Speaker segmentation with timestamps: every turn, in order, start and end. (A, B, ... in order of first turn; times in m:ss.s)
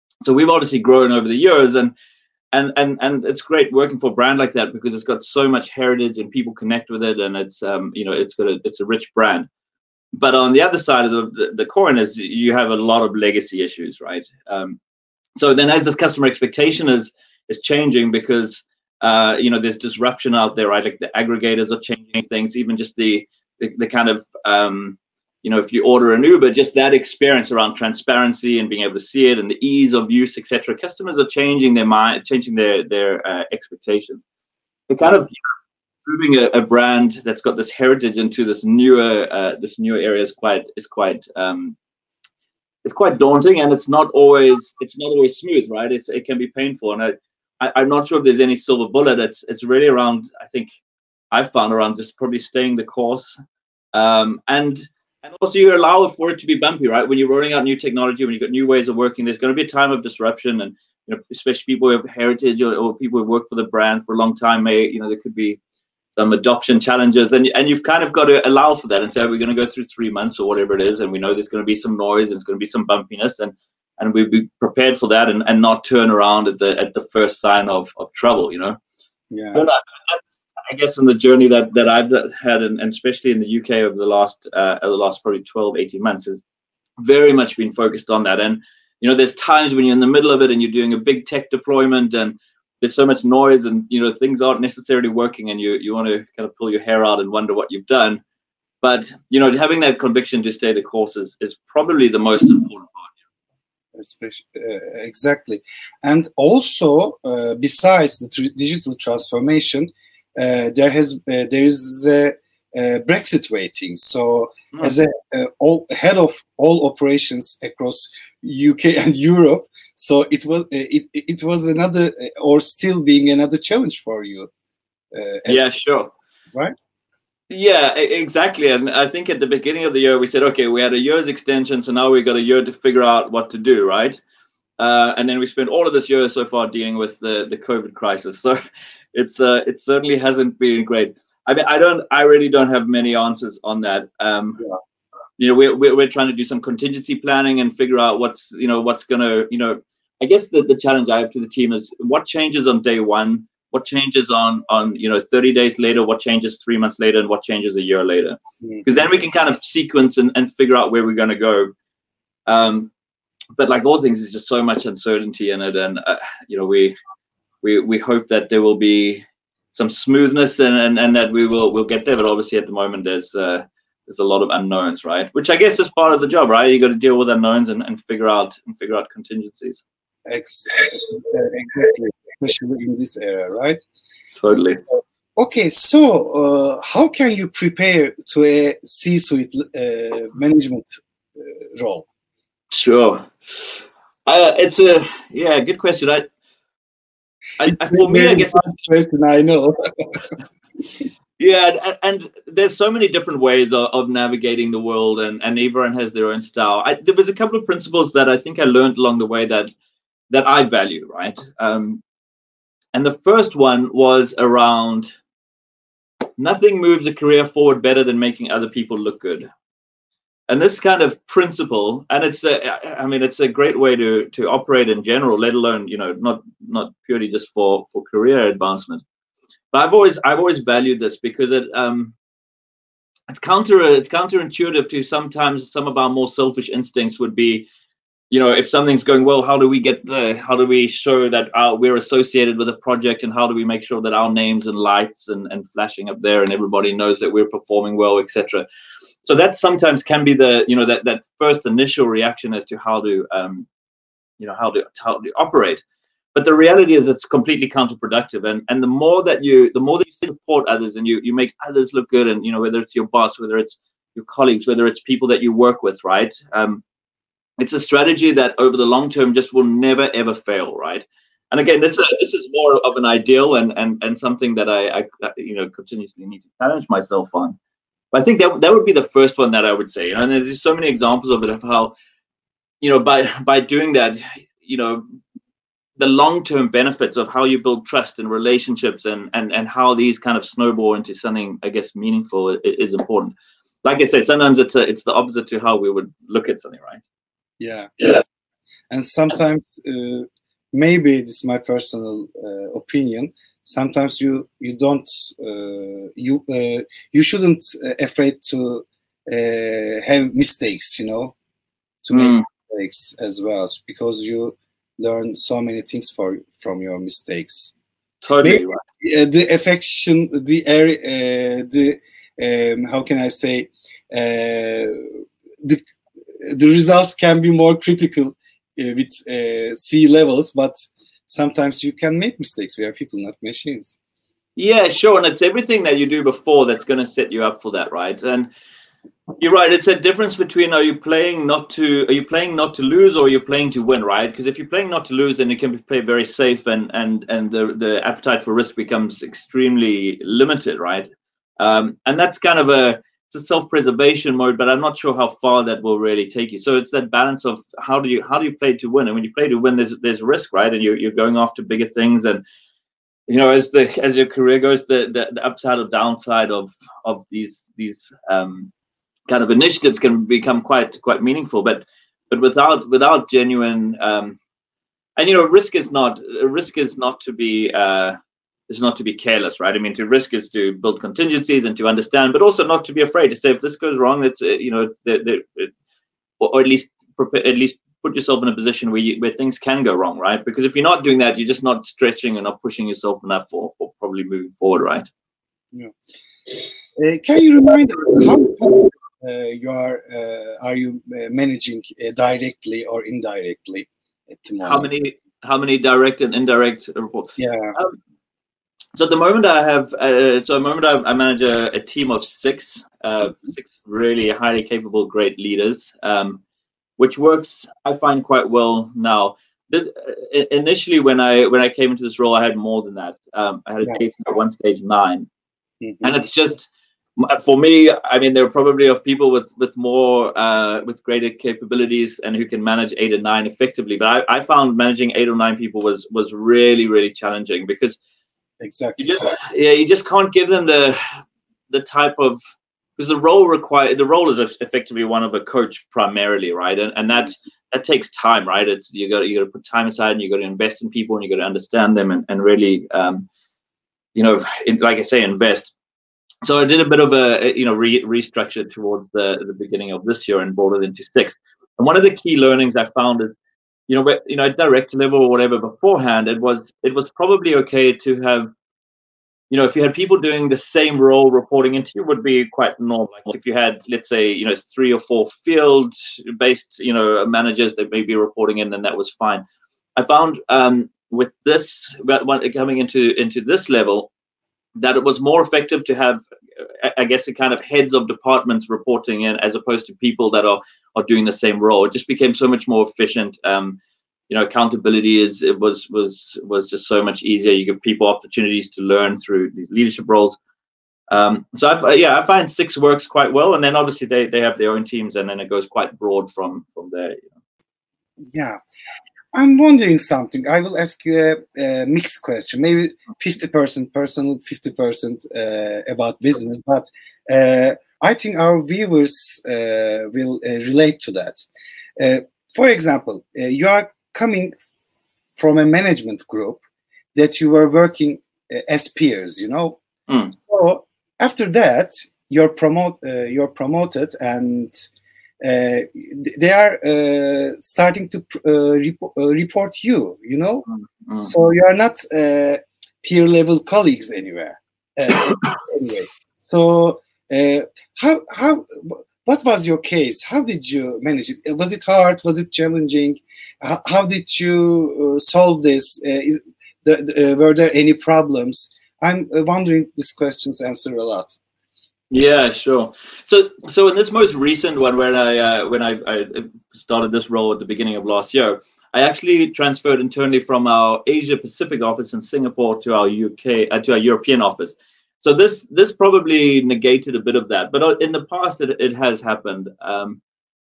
0:00.2-0:01.9 A
0:02.5-0:09.5 A
0:10.1-0:14.8 A
0:15.4-0:34.2 A
0:34.9-0:35.5 A
0:36.0-0:41.8 A
0:42.8-0:50.7 A
0:51.3-0:53.4 A
0:53.9-1:05.6 A
1:06.2-1:18.8 A
1:19.3-1:19.6 B
1:19.5-1:26.4 A
1:27.0-1:38.2 A
1:38.8-1:43.1 A
1:44.0-2:04.5 B
2:05.1-2:05.7 B
2:05.5-2:06.1 A
2:07.5-2:14.2 A
2:14.8-2:18.6 A
2:19.1-2:24.6 A
2:25.4-2:41.7 A
2:42.5-2:42.9 A
2:43.6-2:46.9 A
2:47.6-2:59.8 A
3:00.2-3:03.8 B
3:04.4-3:04.8 A
3:05.4-3:12.1 B
3:12.7-3:13.3 A
3:14.2-3:16.3 A
3:17.6-3:18.8 A
3:17.7-3:20.2 B
3:21.4-3:29.7 A
3:30.3-3:32.0 A
3:32.9-3:35.1 A
3:36.4-3:39.5 A
3:40.5-3:49.0 A
3:49.7-3:52.1 A
3:53.3-3:57.7 A
3:58.3-4:08.6 A
4:09.2-4:13.7 A
4:14.4-4:15.8 A
4:16.3-4:26.8 A
4:27.6-4:37.6 A
4:38.1-4:41.9 A
4:42.8-4:45.0 A
4:46.0-4:57.0 A
4:57.6-4:58.2 B
4:58.9-5:11.3 B
5:12.0-5:17.7 B
5:12.1-5:12.4 A
5:18.2-5:18.8 A
5:18.4-5:25.8 B
5:26.4-5:34.0 B
5:34.6-5:38.5 A
5:39.4-5:51.1 A
5:51.6-6:02.4 A
6:03.3-6:08.7 A
6:09.3-6:14.4 A
6:15.2-6:18.2 A
6:18.7-6:25.7 A
6:26.4-6:35.1 A
6:37.0-6:44.9 B
6:44.6-6:48.0 A
6:47.4-6:47.7 B
6:48.9-6:56.4 A
6:57.0-7:05.3 A
7:05.8-7:06.2 B
7:06.0-7:18.0 A
7:18.6-7:19.3 B
7:19.0-7:21.2 A
7:21.7-7:22.4 A
7:23.0-7:33.3 A
7:34.1-7:35.7 A
7:36.4-7:43.3 A
7:43.9-7:48.5 A
7:49.5-7:59.4 A
8:00.0-8:04.1 A
8:04.8-8:20.4 A
8:21.1-8:27.3 A
8:28.3-8:28.6 B
8:29.3-8:41.4 B
8:42.0-8:44.6 B
8:45.4-8:46.6 B
8:47.1-8:49.8 B
8:50.1-8:50.3 A
8:50.4-8:54.8 B
8:55.4-9:00.6 B
9:00.7-9:01.3 A
9:01.2-9:21.4 B
9:22.1-9:40.2 A